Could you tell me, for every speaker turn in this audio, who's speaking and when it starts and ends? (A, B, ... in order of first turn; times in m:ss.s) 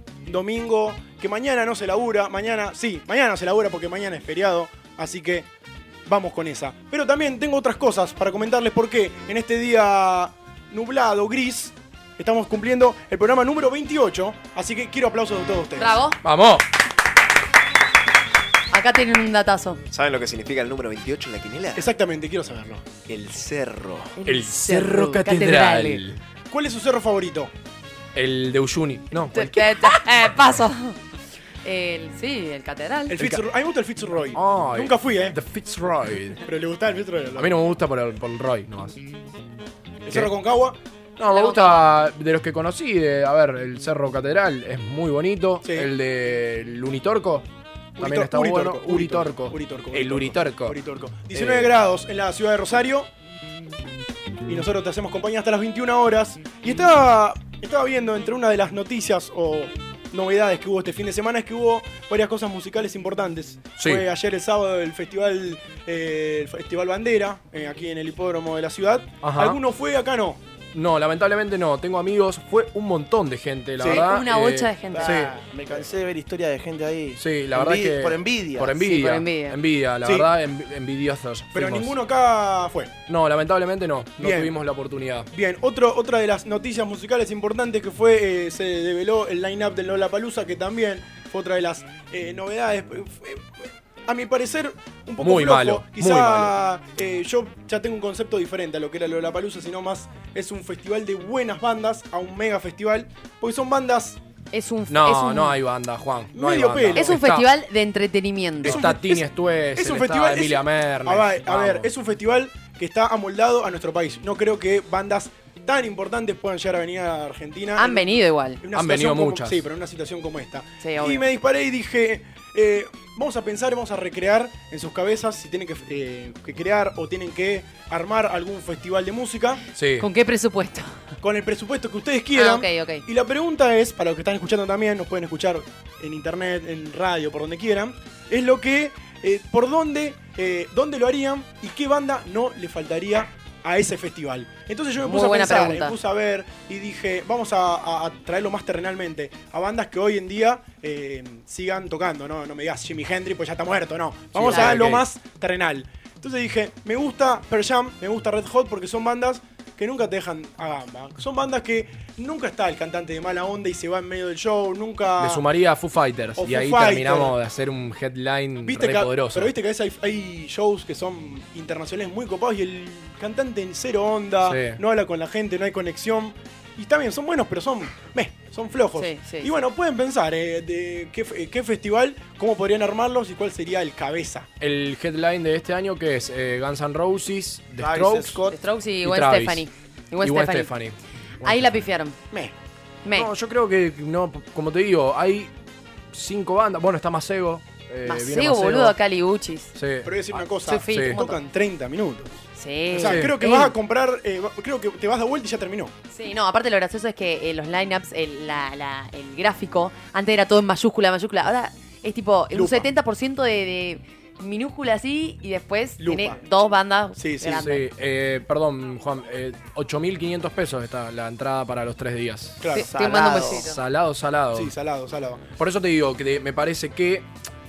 0:00.2-0:05.5 A
0:06.0-0:16.0 A
0:15.8-0:16.2 B
0:16.2-0:16.6 C
0:18.7-0:19.8 B
0:19.9-0:21.9 D
0:21.7-0:22.8 A
0:23.0-0:24.2 D
0:24.2-0:26.0 B
0:24.2-0:26.2 C
0:26.5-0:27.5 A
0:28.1-0:30.0 C
0:29.3-0:31.0 B
0:31.6-0:33.3 B
0:33.1-0:35.4 A
0:34.3-0:36.4 C
0:36.4-0:37.6 A
0:37.4-0:39.0 C
0:40.0-0:40.8 A
0:41.2-0:47.5 C
0:41.2-0:41.9 B
0:45.6-0:45.9 A
0:48.0-0:53.1 A
0:48.0-0:50.8 C
0:51.3-0:51.7 C
0:54.5-1:10.4 A
1:03.8-1:04.0 C
1:09.2-1:09.6 C
1:10.7-1:15.3 C
1:13.8-1:14.0 A
1:14.0-1:15.3 B
1:14.9-1:18.8 E
1:17.2-1:21.9 C
1:18.8-1:19.6 B
1:21.5-1:22.9 A
1:23.1-1:25.3 C
1:24.2-1:24.5 A
1:25.3-1:33.5 A
1:34.0-1:44.2 A
1:35.2-1:36.5 C
1:44.5-1:45.6 B
1:44.9-1:47.5 C
1:46.3-1:47.2 A
1:46.9-1:48.8 B
1:48.6-1:51.9 C
1:48.6-2:09.6 A
1:57.8-1:58.6 B
1:58.7-1:59.6 C
2:00.8-2:01.2 B
2:09.7-2:10.1 C
2:10.0-2:10.9 B
2:11.2-2:45.4 A
2:12.3-2:13.0 B
2:25.0-2:25.9 B
2:34.3-2:35.0 C
2:34.4-2:34.8 B
2:45.2-2:49.5 C
2:46.4-2:47.3 A
2:48.6-3:04.5 A
2:54.4-2:54.8 C
2:58.9-2:59.5 B
3:04.6-3:08.4 C
3:07.8-3:08.6 E
3:08.5-3:10.7 B
3:09.0-3:09.7 C
3:10.2-3:11.8 C
3:11.4-3:12.2 B
3:13.0-3:13.3 B
3:13.1-3:15.5 C
3:16.1-3:19.0 C
3:18.0-3:19.7 B
3:19.7-3:20.1 C
3:20.0-3:25.9 A
3:20.3-3:21.4 B
3:20.9-3:21.2 C
3:22.6-3:23.7 B
3:23.0-3:23.3 C
3:26.1-3:37.8 B
3:32.5-3:32.9 A
3:36.0-3:36.4 A
3:37.2-3:37.6 A
3:37.6-3:44.7 C
3:42.6-3:42.9 A
3:42.7-3:43.7 E
3:42.7-3:43.8 B
3:44.5-3:45.5 A
3:45.6-3:47.3 C